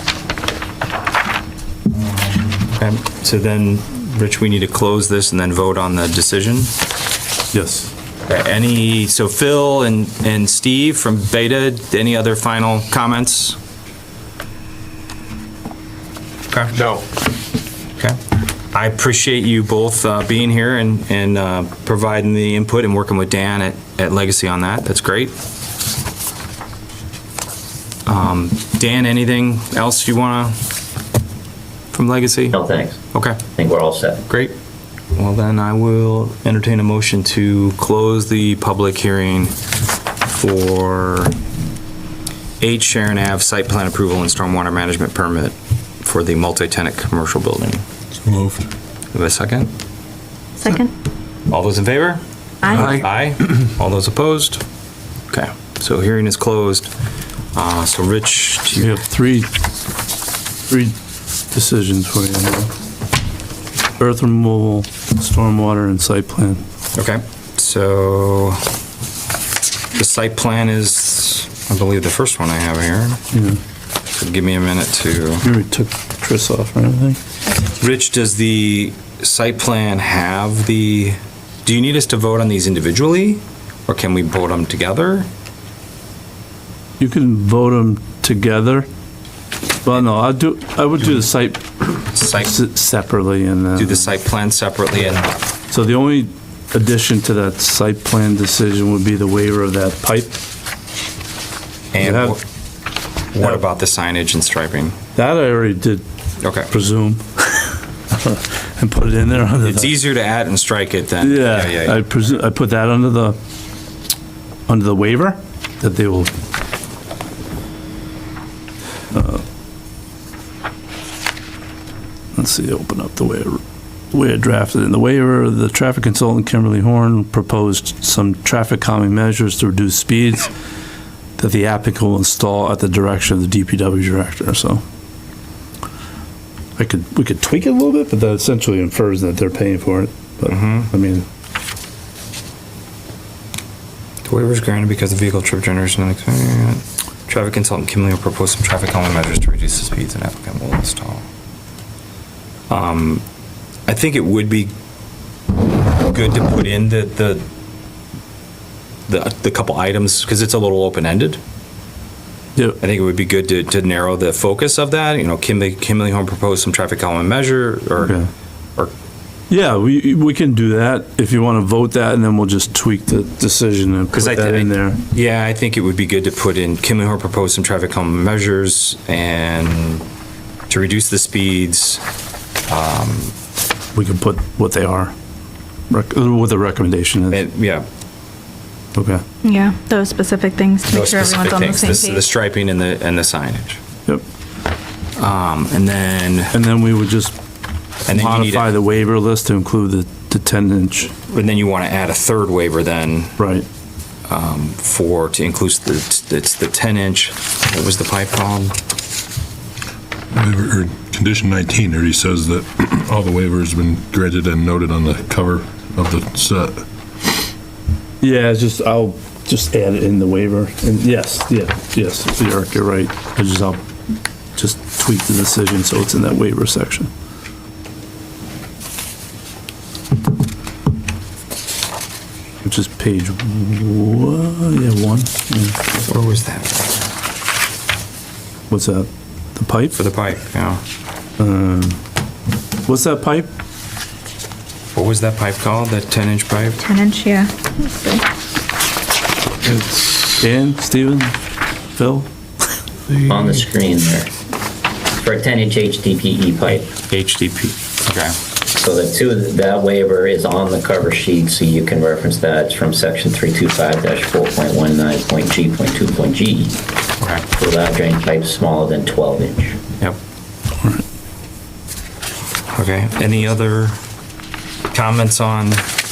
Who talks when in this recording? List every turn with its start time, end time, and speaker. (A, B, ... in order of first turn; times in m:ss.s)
0:02.8-0:06.7 A
0:07.5-0:07.9 B
0:08.2-0:13.6 A
0:16.5-0:16.8 A
0:18.7-0:25.3 A
0:28.0-0:30.6 A
0:31.9-0:32.6 A
0:32.5-0:34.2 C
0:33.1-0:33.4 A
0:34.3-0:34.5 A
0:35.2-0:39.6 A
0:40.2-0:41.3 A
0:42.6-0:47.8 A
0:48.2-0:48.7 D
0:49.1-0:49.7 A
0:50.6-0:50.9 E
0:51.5-0:54.6 A
0:55.3-0:56.9 A
0:57.5-0:59.0 A
0:58.8-0:59.5 B
1:00.7-1:01.0 B
1:01.5-1:02.7 B
1:04.0-1:06.6 B
1:06.9-1:08.6 A
1:09.9-1:13.2 A
1:13.3-1:13.6 B
1:14.1-1:15.4 A
1:15.4-1:17.2 B
1:17.6-1:25.3 A
1:27.0-1:28.9 B
1:29.8-1:34.1 B
1:32.1-1:32.6 A
1:33.8-1:35.4 A
1:35.7-1:40.4 B
1:41.9-1:42.4 A
1:42.0-1:42.4 B
1:43.3-1:45.0 A
1:45.1-1:46.0 B
1:46.4-1:46.7 A
1:46.7-1:49.9 B
1:49.6-1:52.0 A
1:51.2-1:53.4 B
1:54.7-1:56.3 B
1:59.1-1:59.4 B
2:02.3-2:03.6 B
2:04.1-2:10.5 B
2:11.4-2:14.8 B
2:16.8-2:21.2 B
2:20.4-2:20.9 A
2:24.2-2:31.2 A
2:32.7-2:33.2 A
2:33.9-2:34.7 A
2:36.0-2:37.4 A
2:39.1-2:41.4 A
2:42.8-2:48.2 A
2:48.0-2:48.3 B
2:49.5-2:55.0 B
2:54.1-3:00.0 A
3:00.7-3:02.0 A
3:02.7-3:03.3 A
3:03.9-3:05.1 B
3:05.9-3:07.4 B
3:07.3-3:07.8 A
3:08.9-3:09.2 B
3:09.4-3:12.2 E
3:10.9-3:13.8 A
3:15.2-3:16.5 A
3:16.5-3:17.3 B
3:18.1-3:18.8 A
3:18.1-3:21.1 B
3:21.3-3:23.4 A
3:23.4-3:23.7 B
3:24.3-3:28.8 A
3:30.3-3:37.3 D
3:38.2-3:43.8 B
3:44.6-3:47.1 B
3:52.6-3:56.0 B
3:56.0-3:57.1 A
3:58.7-4:00.0 B
3:59.9-4:00.8 A
4:01.4-4:02.0 B
4:02.8-4:03.5 B
4:04.9-4:06.8 A
4:06.8-4:08.2 E
4:09.7-4:11.4 B
4:11.9-4:12.3 B
4:13.1-4:14.3 C
4:15.2-4:16.9 C
4:16.7-4:18.4 A
4:18.7-4:26.8 C
4:27.2-4:27.5 A
4:27.5-4:29.8 C
4:32.7-4:34.0 A
4:34.9-4:35.9 A